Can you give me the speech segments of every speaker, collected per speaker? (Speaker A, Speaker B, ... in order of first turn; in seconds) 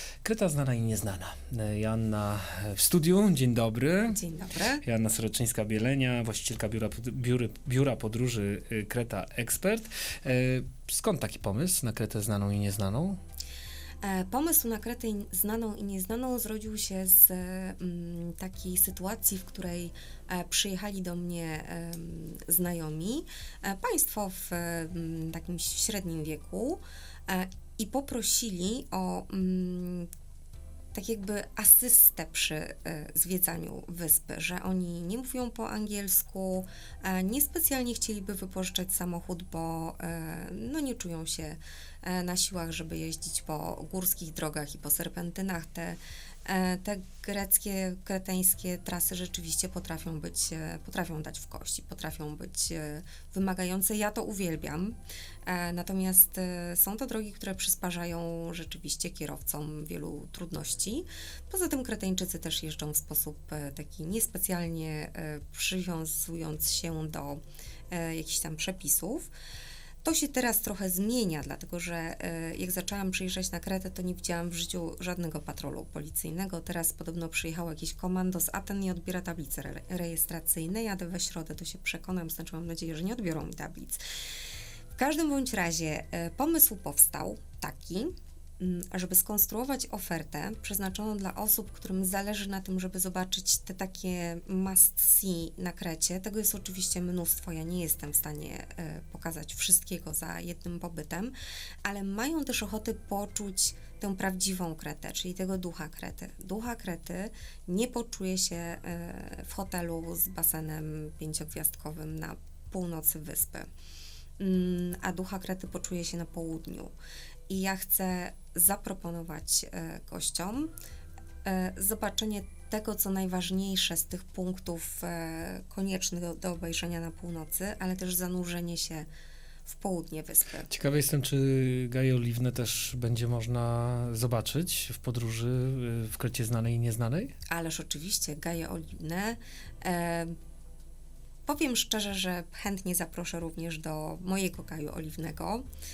Speaker A: 0.2-4.2, 4.8-13.2, 130.7-137.3
Speaker B: 4.1-4.8, 14.0-30.1, 30.9-69.3, 70.0-84.0, 85.0-101.3, 101.8-113.7, 114.4-116.9, 117.5-120.7, 121.4-129.1, 129.7-130.7, 137.5-140.3, 141.4-145.6